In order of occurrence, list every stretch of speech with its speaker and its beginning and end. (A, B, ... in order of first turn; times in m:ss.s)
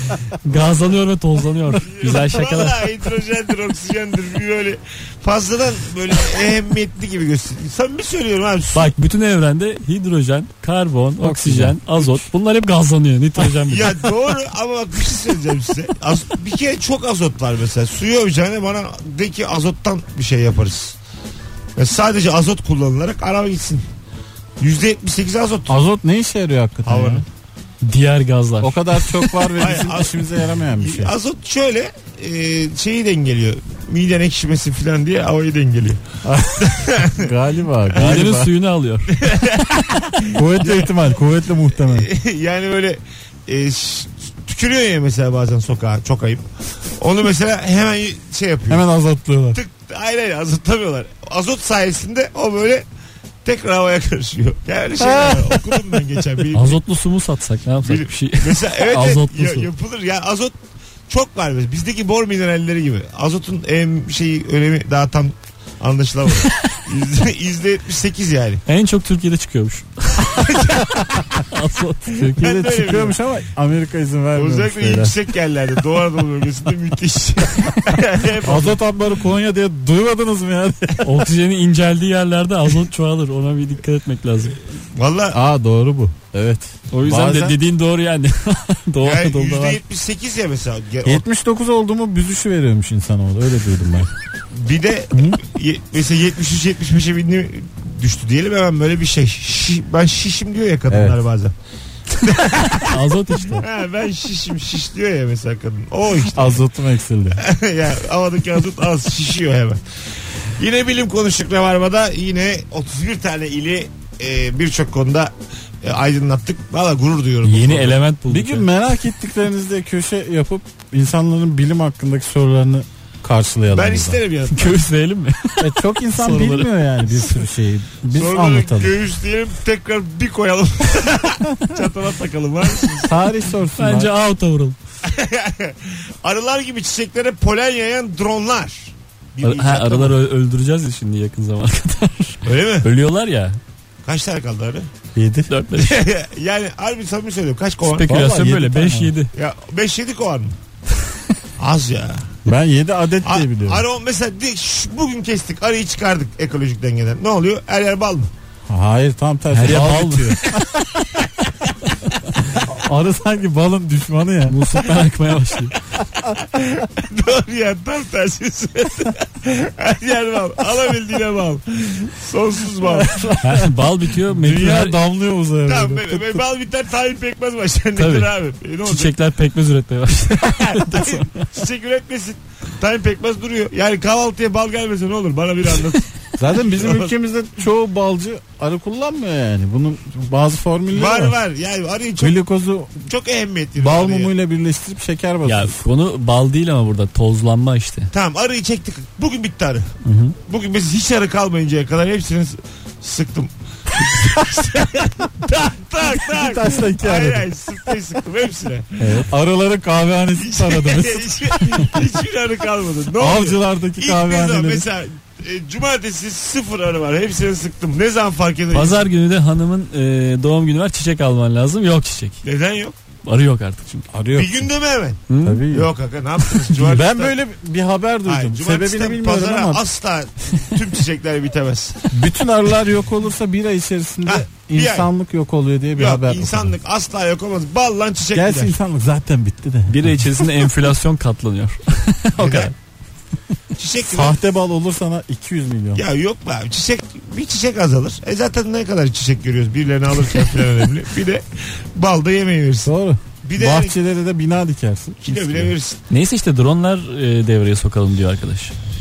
0:00.4-0:02.9 A
0:01.8-0:08.9 B
0:08.7-0:14.0 A
0:11.2-0:12.1 C
0:13.6-0:21.0 B
0:21.8-0:23.8 B
0:24.6-0:25.7 B
0:25.7-0:27.2 C
0:26.8-0:27.2 B
0:27.8-0:29.5 A
0:28.6-0:31.1 C
0:29.6-0:36.0 B
0:36.2-0:38.5 C
0:36.6-0:37.3 B
0:37.9-0:38.2 B
0:38.0-0:39.2 A
0:39.1-0:41.1 B
0:40.3-0:42.1 C
0:41.8-0:46.4 B
0:47.0-0:48.8 B
0:48.7-0:49.6 C
0:49.5-0:52.8 B
0:53.4-0:56.8 B
0:55.0-0:55.8 C
0:56.5-0:59.7 A
0:57.8-1:00.6 B
1:01.1-1:08.6 B
1:08.6-1:10.7 A
1:10.3-1:11.4 B
1:11.5-1:12.2 A
1:12.1-1:13.2 B
1:12.2-1:15.2 C
1:14.3-1:18.8 B
1:18.4-1:21.2 C
1:21.0-1:24.6 A
1:24.9-1:25.4 B
1:25.3-1:27.6 C
1:26.9-1:29.8 A
1:29.0-1:31.2 B
1:31.0-1:34.1 C
1:34.5-1:41.5 B
1:40.9-1:41.2 C
1:42.2-1:43.0 B
1:42.6-1:43.6 A
1:43.5-1:46.6 B
1:46.3-1:47.4 C
1:47.4-1:49.8 B
1:50.6-1:55.3 B
1:55.8-1:58.0 B
1:57.4-1:58.7 A
1:58.3-2:04.2 C
2:03.7-2:04.8 B
2:04.5-2:06.8 A
2:05.6-2:08.9 C
2:08.1-2:13.2 B
2:13.0-2:14.1 C
2:13.8-2:14.8 A
2:15.0-2:20.2 B
2:19.4-2:23.6 A
2:22.4-2:22.9 B
2:24.0-2:24.9 B
2:25.2-2:25.5 C
2:25.5-2:26.0 A
2:25.7-2:28.1 B
2:27.8-2:29.3 A
2:28.0-2:29.1 C
2:29.3-2:30.6 B
2:31.6-2:32.4 B
2:32.4-2:33.8 C
2:33.2-2:38.3 B
2:38.7-2:40.8 C
2:39.5-2:40.4 A
2:42.5-2:44.6 C
2:44.5-2:45.7 A
2:46.2-2:53.3 B
2:52.8-2:56.4 C
2:53.4-2:55.0 A
2:55.6-2:59.1 B
2:58.0-2:58.3 A
2:58.8-3:01.5 A
3:00.3-3:07.1 B
3:06.4-3:11.4 C
3:10.9-3:12.4 B
3:12.2-3:13.0 C
3:13.0-3:14.3 B
3:13.8-3:15.8 C
3:15.4-3:18.1 A
3:18.1-3:29.3 B
3:20.0-3:20.4 A
3:26.1-3:27.5 C
3:29.1-3:32.0 C
3:30.4-3:39.1 B
3:33.2-3:34.9 C
3:38.7-3:42.4 A
3:42.4-3:42.9 B
3:43.2-3:44.0 A
3:44.1-3:44.6 C
3:44.3-3:47.4 B
3:45.3-3:45.6 A
3:45.4-3:45.9 C
3:46.8-3:49.8 C
3:48.2-3:52.1 B
3:52.1-3:56.7 C
3:54.2-3:55.1 B
3:56.0-3:58.8 B
3:58.3-4:00.5 C
3:59.9-4:02.7 A
4:02.4-4:02.7 B
4:03.8-4:04.4 B
4:04.0-4:06.0 C
4:05.9-4:11.4 B
4:11.9-4:14.0 B
4:12.8-4:15.7 C
4:15.2-4:16.0 B
4:16.1-4:18.8 A